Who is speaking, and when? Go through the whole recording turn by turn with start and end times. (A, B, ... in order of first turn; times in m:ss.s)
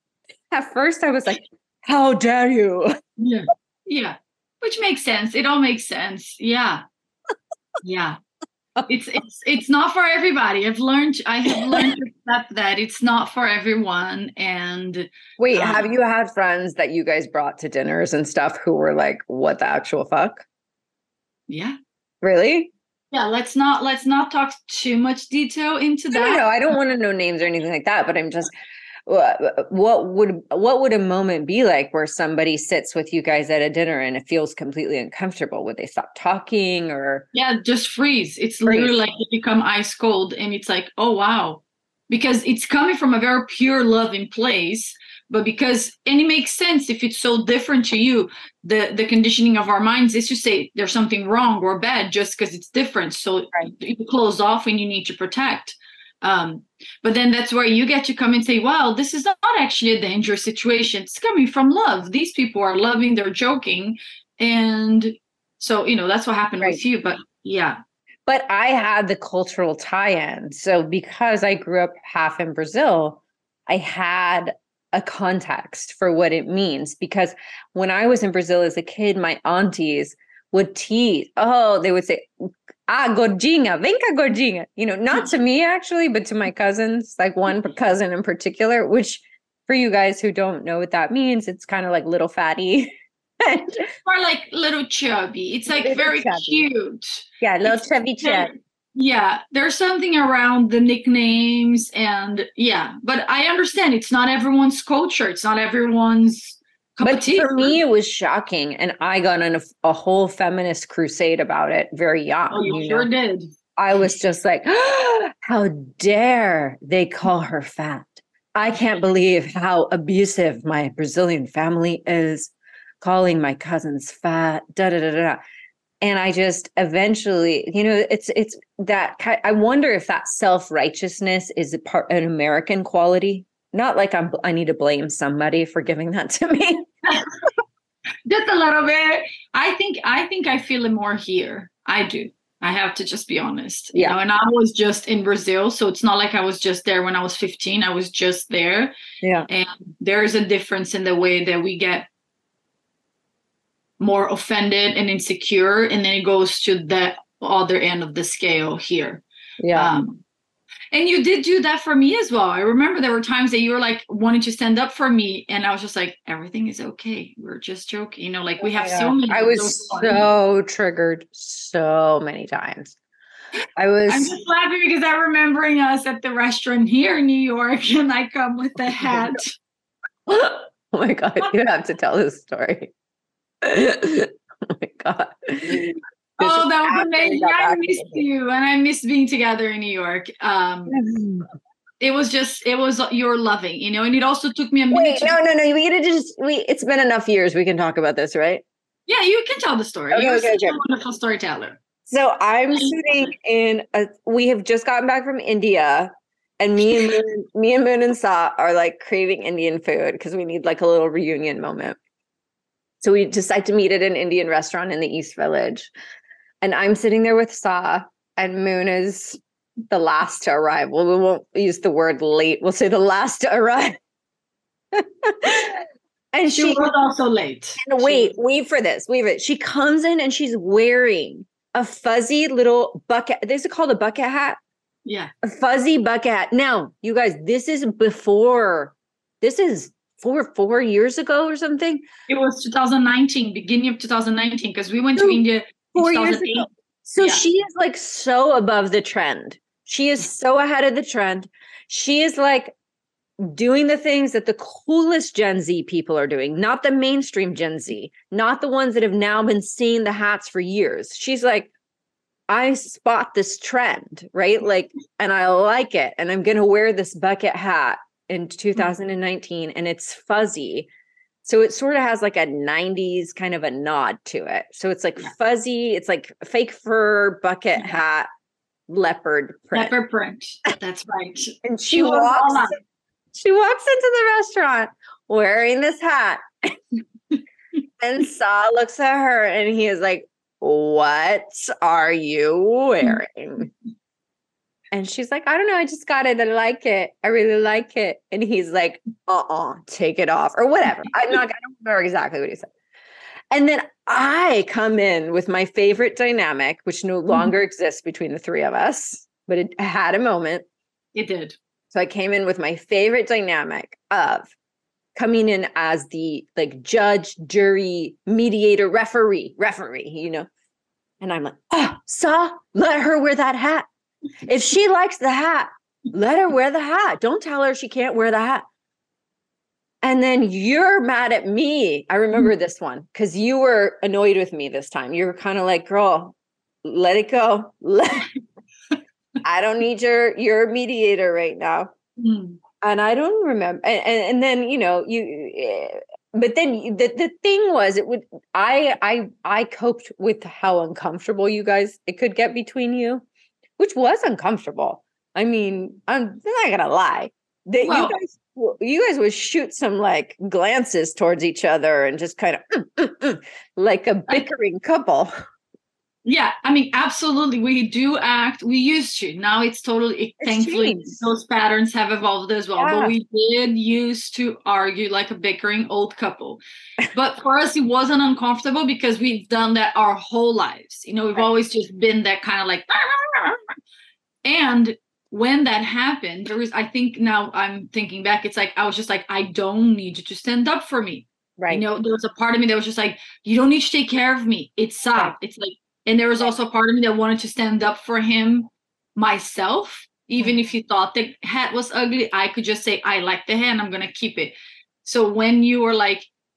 0:00.5-0:02.9 A
0:03.2-0:06.8 B
0:07.8-0:08.2 B
0:08.9-0:15.9 B
0:11.6-0:11.9 A
0:15.4-0:20.5 A
0:21.5-0:21.8 B
0:22.2-0:22.7 A
0:23.1-0:26.4 B
0:26.1-0:28.5 A
0:29.1-0:37.2 A
0:37.3-1:07.8 B
0:38.7-0:39.0 A
1:08.3-1:22.3 A
1:22.9-1:33.9 A
1:34.0-1:47.8 B
1:35.7-1:36.7 A
1:37.4-1:38.5 A
1:47.0-1:53.1 A
1:52.5-1:53.5 B
1:53.8-2:05.4 A
2:06.0-2:16.9 A
2:18.3-2:28.9 B
2:29.2-2:29.5 A
2:29.5-2:32.1 B
2:34.0-2:39.2 B
2:39.6-2:40.0 A
2:39.7-2:40.2 B
2:40.9-2:50.2 B
2:48.6-2:53.0 A
2:53.8-2:54.3 A
2:54.1-2:59.5 B
3:00.3-3:02.9 A
3:03.6-3:08.2 A
3:06.4-3:10.9 B
3:10.9-3:11.5 A
3:12.0-3:15.4 B
3:14.9-3:18.6 A
3:19.1-3:21.8 B
3:20.1-3:20.8 A
3:22.1-3:32.0 A
3:33.0-3:35.9 A
3:36.6-3:39.4 A
3:39.9-3:44.0 A
3:44.9-3:46.8 A
3:46.6-3:48.3 B
3:47.8-3:54.6 A
3:55.0-3:55.3 B
3:55.4-4:02.0 A
4:02.3-4:06.7 B
4:06.0-4:12.7 A
4:13.4-4:21.7 A
4:22.5-4:30.9 A
4:31.4-4:38.3 A
4:38.9-4:39.9 A
4:39.7-4:42.7 B
4:41.6-4:42.7 A
4:43.3-4:46.4 A
4:48.0-4:53.7 A
4:54.9-5:02.7 A
5:03.5-5:10.7 A
5:11.2-5:11.6 B
5:11.9-5:14.5 A
5:15.2-5:20.5 A
5:21.2-5:23.9 A
5:24.5-5:28.6 A
5:30.0-5:38.3 A
5:39.4-5:41.9 A
5:42.2-5:42.6 B
5:42.8-5:53.2 A
5:53.8-6:05.3 A
5:57.8-5:58.2 B
6:06.2-6:16.6 B
6:10.4-6:11.2 A
6:12.8-6:13.1 A
6:17.1-6:23.7 B
6:24.4-6:46.3 B
6:31.6-6:31.8 A